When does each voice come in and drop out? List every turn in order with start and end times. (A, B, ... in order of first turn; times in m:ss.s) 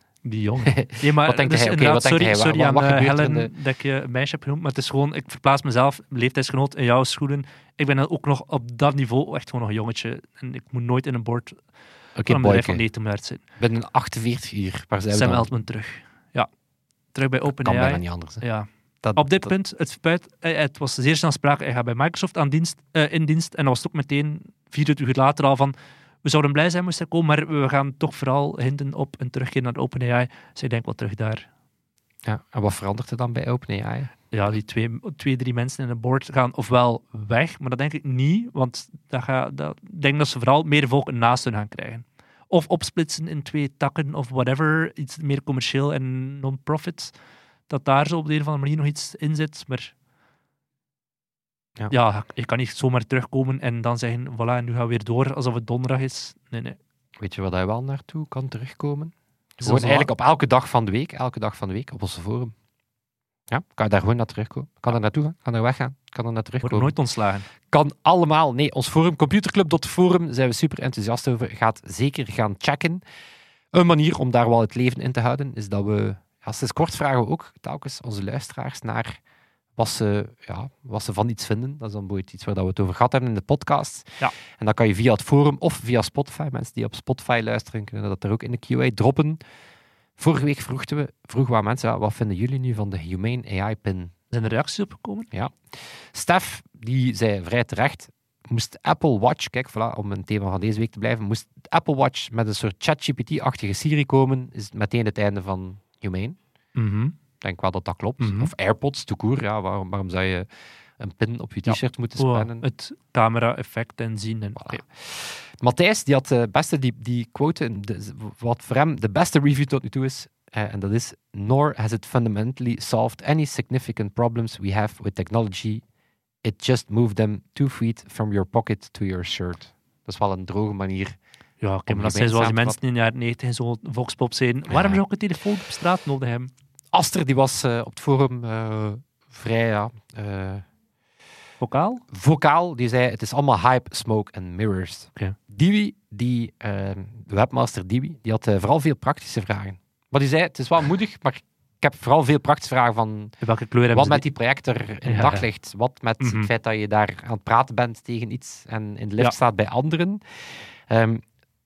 0:00.2-0:11.6 A
0:00.6-0:03.5 B
0:12.2-0:12.8 B
0:12.3-0:13.4 A
0:13.6-0:15.5 B
0:15.1-0:16.5 A
0:17.1-0:31.5 A
0:17.5-0:18.4 B
0:19.0-0:19.5 B
0:32.2-0:34.1 B
0:34.3-0:47.1 A
0:47.7-0:49.9 A
0:51.9-0:56.8 A
0:57.2-1:02.5 B
0:59.6-1:00.1 A
1:03.5-1:06.9 B
1:06.6-1:07.5 A
1:07.7-1:13.0 B
1:13.7-1:19.2 B
1:19.8-1:29.4 B
1:30.2-1:34.1 B
1:34.3-1:35.3 A
1:35.3-1:46.4 B
1:46.7-1:47.1 A
1:47.4-1:50.4 B
1:48.2-1:48.5 A
1:51.0-1:52.6 B
1:51.6-1:54.8 A
1:54.6-2:05.8 B
2:06.4-2:11.2 B
2:11.6-2:16.5 A
2:11.8-2:12.8 B
2:14.7-2:15.0 B
2:16.9-2:20.6 B
2:21.6-2:22.0 A
2:22.1-2:33.4 B
2:33.4-2:34.2 A
2:33.9-2:41.2 B
2:35.0-2:35.5 A
2:36.2-2:36.5 A